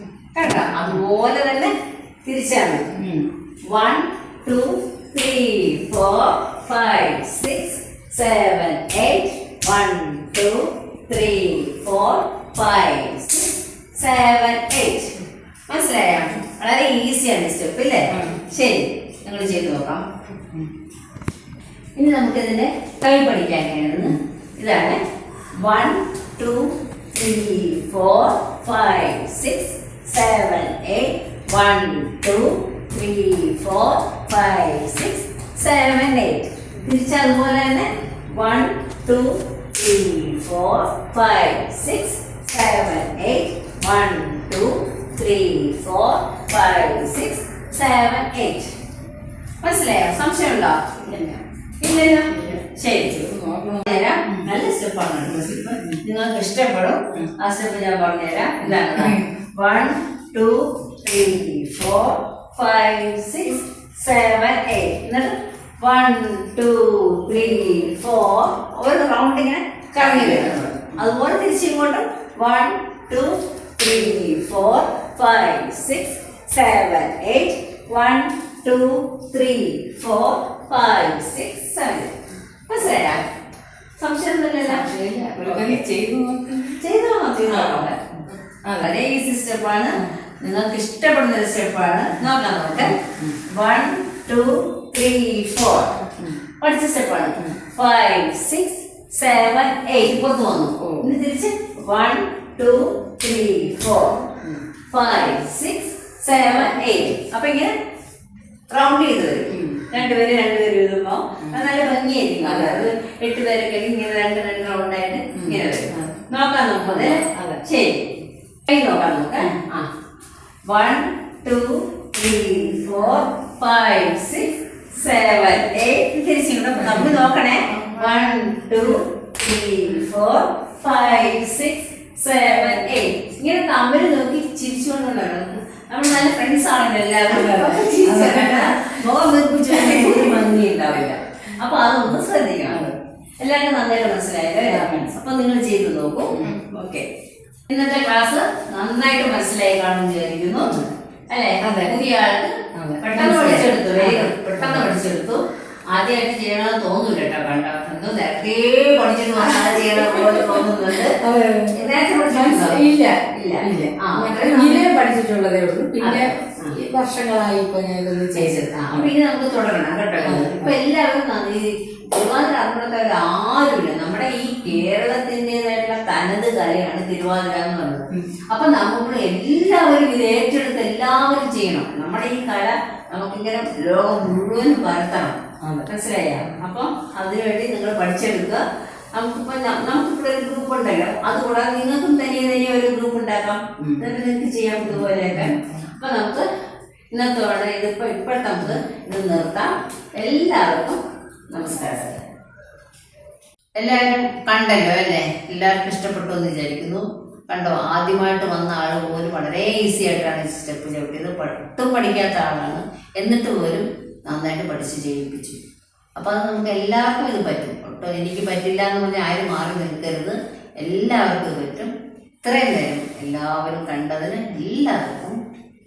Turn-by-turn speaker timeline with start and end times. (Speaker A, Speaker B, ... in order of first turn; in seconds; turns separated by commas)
Speaker A: 0.3-1.7, Speaker A: 2.2-2.9, Speaker B: 2.9-3.3, Speaker A: 3.7-20.0, Speaker B: 18.1-18.4, Speaker A: 22.0-25.0, Speaker A: 25.6-48.7, Speaker A: 49.6-53.3, Speaker B: 51.1-51.4, Speaker B: 52.3-52.6, Speaker B: 53.2-54.5, Speaker A: 53.9-82.1, Speaker B: 55.3-56.0, Speaker B: 58.9-59.3, Speaker B: 70.0-71.0, Speaker A: 82.7-83.2, Speaker A: 84.0-85.8, Speaker B: 84.6-86.8, Speaker A: 86.8-88.2, Speaker B: 87.5-88.9, Speaker A: 88.8-104.3, Speaker B: 92.8-93.4, Speaker B: 100.8-101.1, Speaker A: 104.9-107.7, Speaker A: 108.7-119.9, Speaker B: 109.5-109.9, Speaker B: 112.4-112.9, Speaker B: 115.3-116.1, Speaker B: 116.8-117.6, Speaker A: 120.7-147.1, Speaker B: 127.7-128.5, Speaker B: 137.3-138.9, Speaker B: 139.7-140.4, Speaker B: 142.7-142.9, Speaker B: 144.7-145.1, Speaker B: 146.3-146.6, Speaker A: 147.7-164.9, Speaker B: 151.6-151.9, Speaker B: 152.7-154.9, Speaker B: 159.7-160.6, Speaker B: 161.2-169.1, Speaker A: 166.0-166.8, Speaker A: 168.3-188.6, Speaker B: 170.2-170.7, Speaker A: 189.1-196.4, Speaker B: 195.3-195.6, Speaker A: 197.1-201.0, Speaker A: 201.5-202.3, Speaker A: 203.8-215.6, Speaker A: 216.1-225.4